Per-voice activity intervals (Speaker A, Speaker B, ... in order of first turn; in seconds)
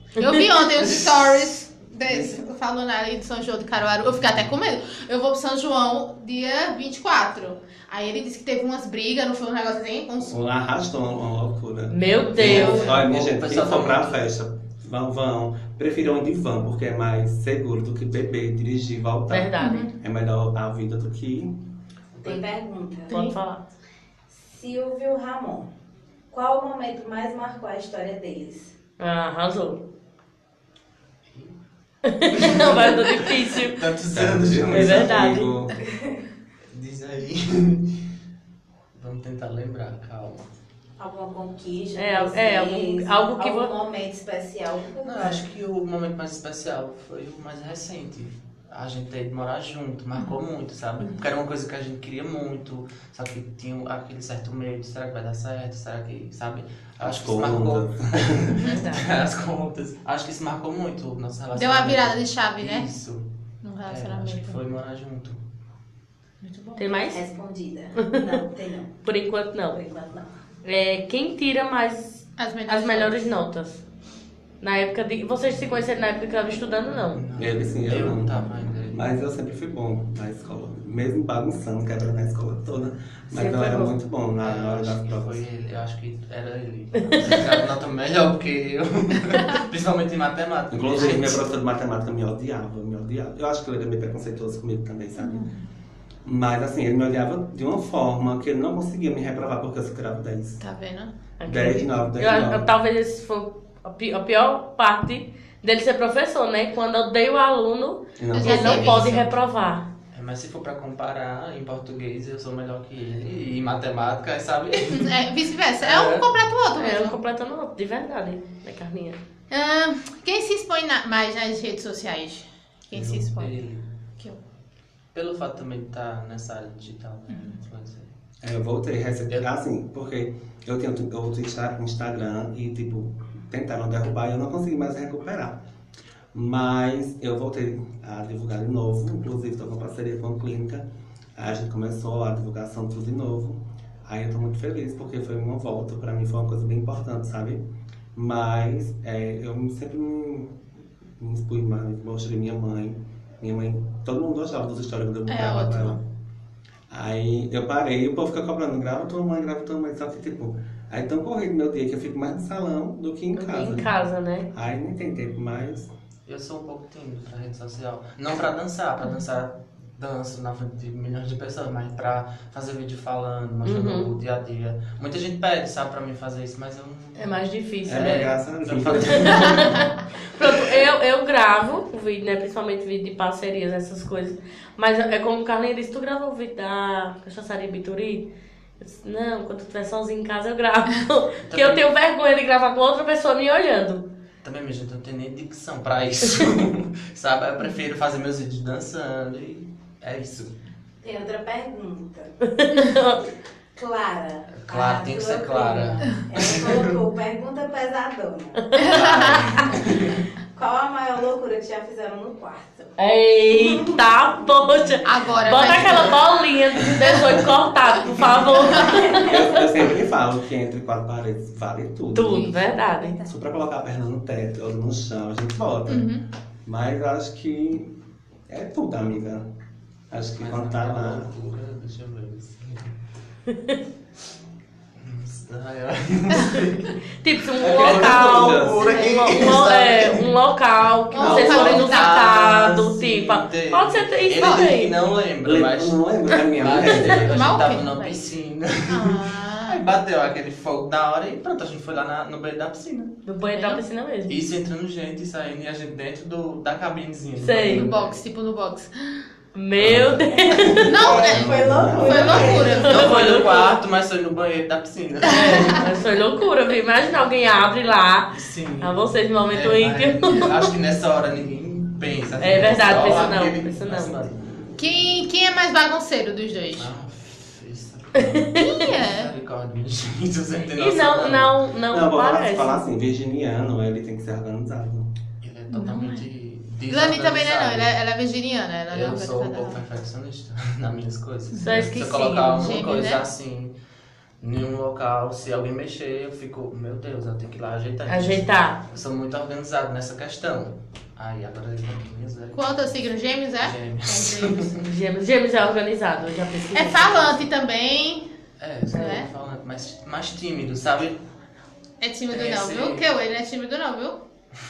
Speaker A: 0.2-10.3, 19.6-19.9, 23.1-23.4, 58.6-58.8, 61.5-62.9, 63.6-64.6, 66.4-67.0, 72.4-73.2, 95.2-95.6, 100.6-101.1, 108.3-109.3, 114.9-117.2, 119.5-123.5, 127.3-127.6, 155.3-156.0, 208.7-209.7, 215.1-216.2, 218.7-219.0, 222.2-223.3, 225.9-226.2, 238.8-239.1, 241.1-242.3, 244.4-244.7, 247.2-248.3, 248.9-249.8, 253.5-253.8, 257.7-259.2, 260.8-263.6, 265.3-265.8, 274.8-276.9, 278.6-279.3, 285.7-286.2, 286.9-289.8, 291.6-291.8, 292.5-293.2, 302.5-304.8, 306.7-308.3, 308.9-309.3, 312.0-314.2
Speaker B: 0.2-0.5, 11.9-12.9, 19.3-19.9, 23.1-23.6, 29.0-29.8, 32.0-33.8, 34.7-35.5, 42.0-43.7, 58.7-59.1, 66.8-67.2, 68.0-68.4, 69.0-69.8, 70.6-73.8, 74.6-77.2, 83.3-84.0, 101.4-109.9, 116.8-119.2, 163.3-164.5, 173.6-174.1, 177.2-178.2, 179.1-194.1, 202.4-203.2, 208.6-208.9, 213.0-219.6, 222.1-223.2, 233.5-233.8, 237.2-244.9, 253.2-254.3, 257.4-257.9, 259.5-261.0, 262.4-263.8, 265.4-270.7, 272.4-274.2, 278.2-278.7, 280.7-282.8, 291.6-292.8, 298.1-298.8, 304.7-307.4
Speaker C: 0.8-1.4, 2.0-2.4, 4.1-4.5, 12.3-14.2, 32.3-35.1, 36.7-38.0, 38.9-40.5, 45.0-63.2, 63.8-65.4, 77.1-79.1, 84.4-91.5, 110.1-115.1, 115.8-116.3, 122.9-123.8, 125.1-128.1, 166.2-179.9, 191.4-191.9, 194.4-200.6, 204.5-206.9, 208.9-210.2, 230.4-232.9, 235.0-237.0, 237.6-240.3, 241.2-253.2, 254.3-258.2, 262.5-265.9, 268.3-269.0, 269.5-274.4, 276.7-281.6, 285.4-287.9, 288.9-293.7, 294.4-302.8, 303.6-304.8, 308.6-311.2, 312.3-313.1
Speaker D: 10.2-21.6, 34.1-35.7, 57.0-58.6, 77.3-85.4, 90.7-95.5, 96.2-100.6, 101.5-102.7, 108.2-109.0, 128.4-135.6, 136.3-147.6, 148.1-150.6, 151.2-156.0, 156.9-163.9, 164.5-165.9, 177.9-179.7, 219.2-222.6, 223.2-226.1, 226.6-227.9, 228.5-229.4, 230.1-231.3, 237.6-239.0, 241.2-241.9, 245.4-247.6, 259.8-262.7, 281.9-285.1
Speaker E: 12.4-13.0, 22.2-23.2, 24.3-25.7, 26.3-28.7, 35.8-36.2, 41.0-45.4, 67.1-69.0, 69.7-70.3, 201.0-202.3, 203.7-208.8, 210.5-213.0, 213.5-214.0, 218.8-219.3, 260.9-262.9